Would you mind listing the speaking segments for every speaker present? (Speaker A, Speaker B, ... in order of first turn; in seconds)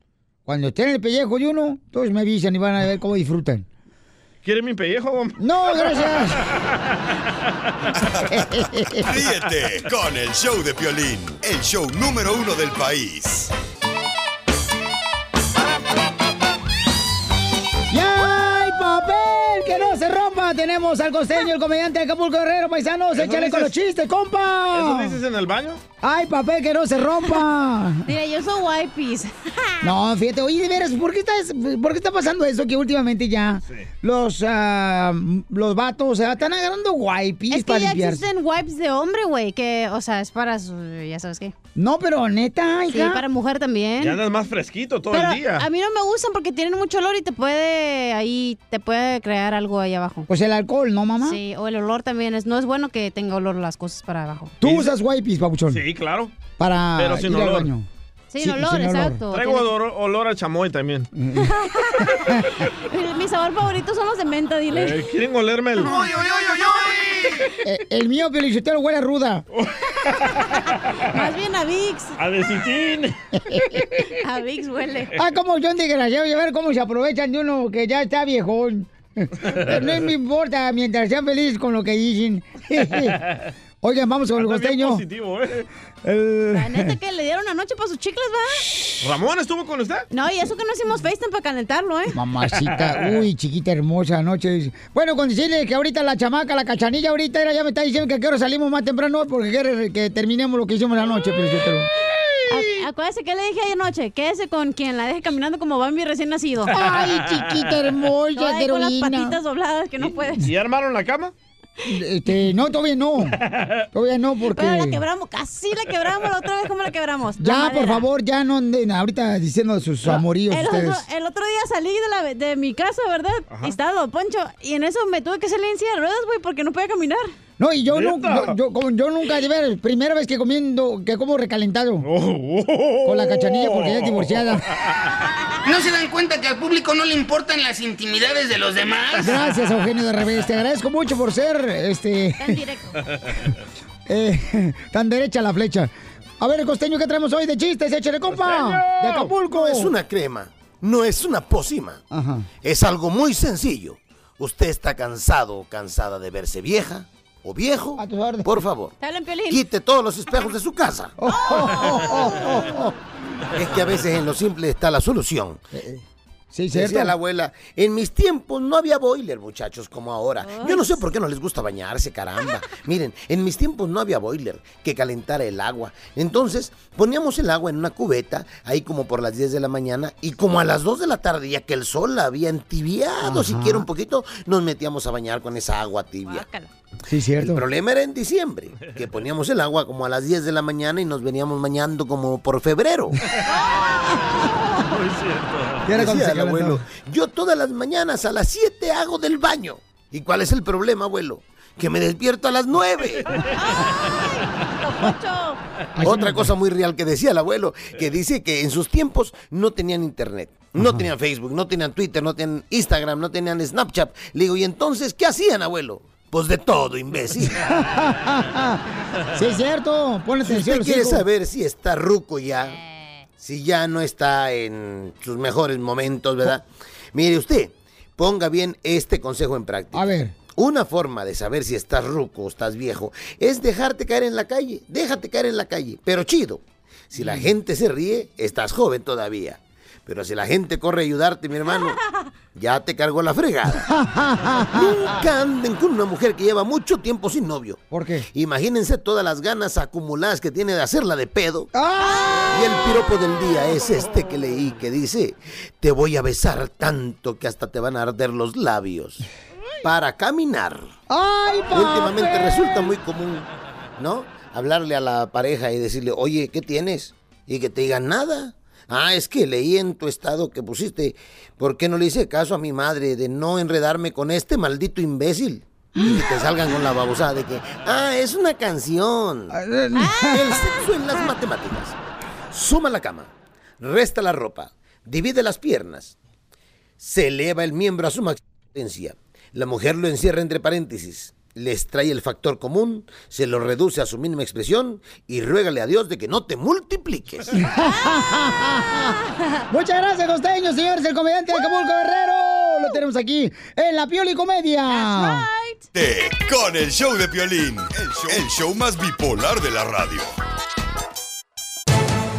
Speaker A: 0.5-3.6, 5.4-6.4, 8.3-9.1, 17.9-25.2, 26.0-28.1, 29.8-38.2, 41.8-43.2, 50.3-51.4, 54.6-55.8, 56.6-57.9, 58.4-59.2, 61.1-62.5, 67.6-69.4, 73.4-73.9, 75.2-83.2, 83.8-85.0, 86.0-86.9, 92.1-101.9, 106.7-109.4, 111.8-113.4, 113.9-115.0, 117.4-121.0, 127.6-132.1, 133.0-134.7, 139.2-142.6, 144.1-149.9, 152.1-152.5, 158.0-158.5, 161.2-162.9, 165.7-167.1, 183.2-183.9, 187.1-187.6, 195.8-196.8, 206.0-206.5, 210.8-211.0, 217.5-218.8, 219.3-221.2, 229.9-230.3, 237.2-237.5, 243.7-245.3, 247.9-248.2, 251.7-252.4, 261.1-262.9, 279.5-280.6, 297.5-299.1, 299.7-305.4
Speaker B: 4.4-6.7, 23.1-23.7, 24.7-25.8, 44.0-45.7, 54.6-54.9, 55.7-56.3, 57.0-57.7, 59.3-61.1, 64.7-67.5, 69.5-71.0, 72.2-73.2, 79.5-79.9, 84.3-85.7, 89.0-90.1, 106.8-107.7, 110.0-111.3, 113.3-113.8, 123.5-123.8, 127.9-128.6, 132.0-135.1, 148.3-149.3, 193.4-194.2, 194.7-195.9
Speaker C: 9.1-13.5, 305.9-310.3
Speaker D: 28.1-29.9, 37.5-41.5, 42.9-44.2, 45.1-50.2, 51.2-54.5, 58.3-59.7, 61.4-65.0, 71.0-72.2, 74.2-75.1, 86.5-88.7, 90.1-92.1, 102.5-106.7, 108.3-110.5, 114.5-118.0, 120.0-127.3, 142.4-143.0, 159.0-159.6, 161.2-162.3, 170.4-171.0, 186.2-186.7, 193.4-194.7, 203.5-205.6, 252.0-252.8, 276.0-276.2, 279.9-281.1, 297.8-299.6, 301.6-301.9, 304.9-305.8
Speaker E: 135.6-139.3
Speaker F: 149.5-152.0, 152.6-158.9, 159.5-161.1, 163.5-165.6, 166.7-186.4, 187.4-193.2, 195.9-203.3, 206.0-217.7, 220.4-222.8, 223.4-242.0, 242.5-243.9, 244.7-251.7, 252.5-259.2, 259.8-260.9, 261.7-263.5, 264.0-279.6, 280.3-282.0, 282.5-286.1, 287.0-297.5